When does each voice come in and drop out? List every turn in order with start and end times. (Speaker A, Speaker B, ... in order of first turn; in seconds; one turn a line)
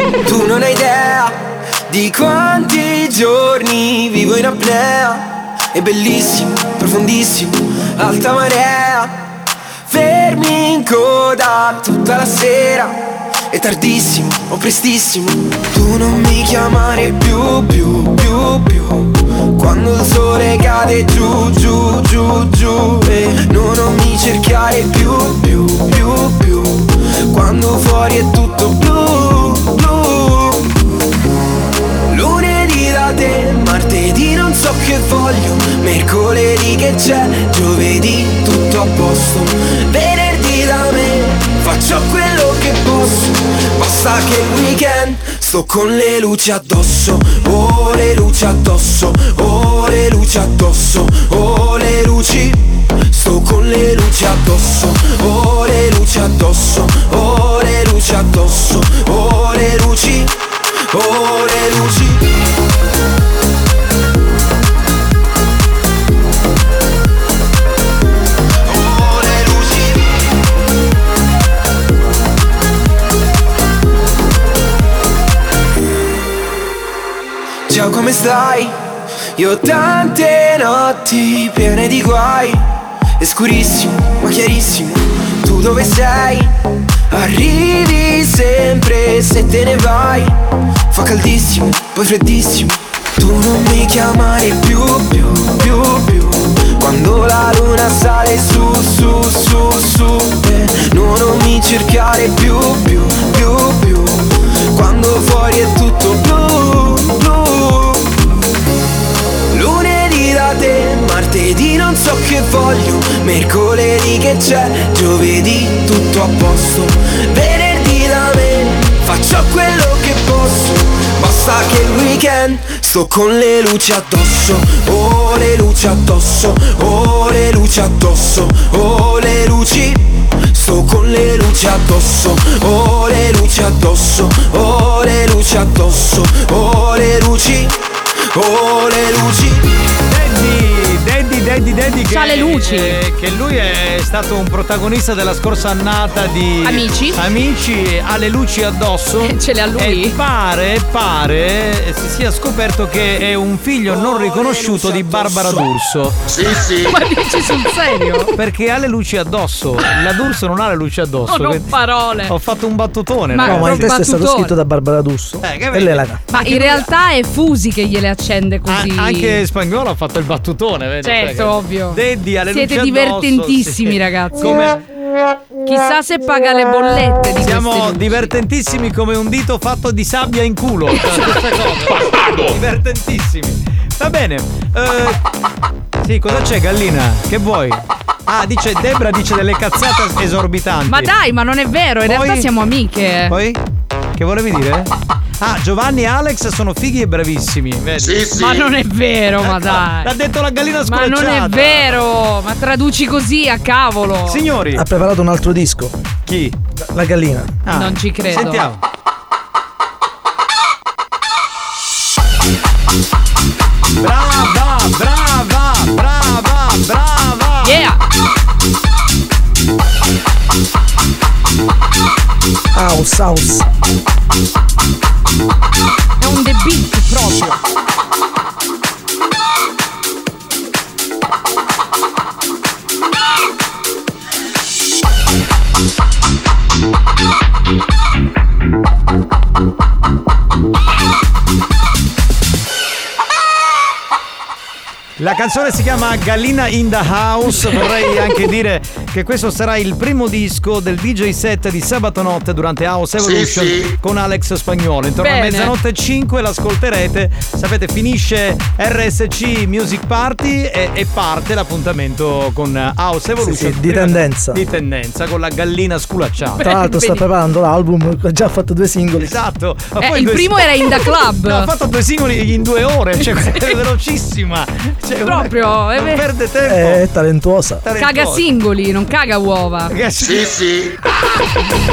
Speaker A: 0.2-9.2
Speaker A: 9.9-30.7
Speaker A: 32.1-60.4
Speaker A: 60.9-62.2
Speaker A: 68.6-70.1
Speaker A: 77.7-78.8
Speaker A: 79.3-82.7
Speaker A: 83.2-86.5
Speaker A: 87.1-90.4
Speaker A: 90.9-108.1
Speaker A: 109.5-137.8
Speaker A: 138.3-139.7
Speaker B: 140.1-156.2
Speaker C: 142.1-143.0
Speaker C: 146.6-147.2
Speaker C: 149.2-150.2
Speaker A: 153.9-155.6
Speaker C: 156.8-158.3
Speaker B: 158.3-161.7
Speaker C: 161.3-162.3
Speaker B: 162.2-163.9
Speaker C: 163.3-164.5
Speaker D: 163.4-166.2
Speaker B: 165.4-166.9
Speaker C: 166.3-169.4
Speaker B: 168.7-174.8
Speaker C: 171.0-174.8
Speaker C: 175.7-178.3
Speaker B: 177.4-185.2
Speaker B: 186.0-191.1
Speaker C: 190.9-193.3
Speaker B: 192.0-192.5
Speaker B: 193.3-193.6
Speaker B: 194.2-198.6
Speaker C: 198.3-200.1
Speaker B: 199.4-202.0
Speaker C: 200.9-204.4
Speaker B: 204.3-204.8
Speaker D: 204.7-206.0
Speaker B: 206.2-206.6
Speaker D: 206.8-207.5
Speaker B: 207.7-208.8
Speaker C: 207.7-208.6
Speaker B: 214.0-217.8
Speaker C: 217.6-218.0
Speaker D: 222.7-223.6
Speaker C: 226.2-227.6
Speaker B: 245.2-266.7
Speaker C: 255.2-255.7
Speaker D: 263.4-264.6
Speaker C: 266.6-267.2
Speaker D: 266.6-269.3
Speaker B: 269.2-277.0
Speaker C: 270.0-271.7
Speaker C: 275.2-276.2
Speaker D: 276.6-277.8
Speaker B: 277.8-278.4
Speaker C: 278.0-279.9
Speaker B: 279.9-280.7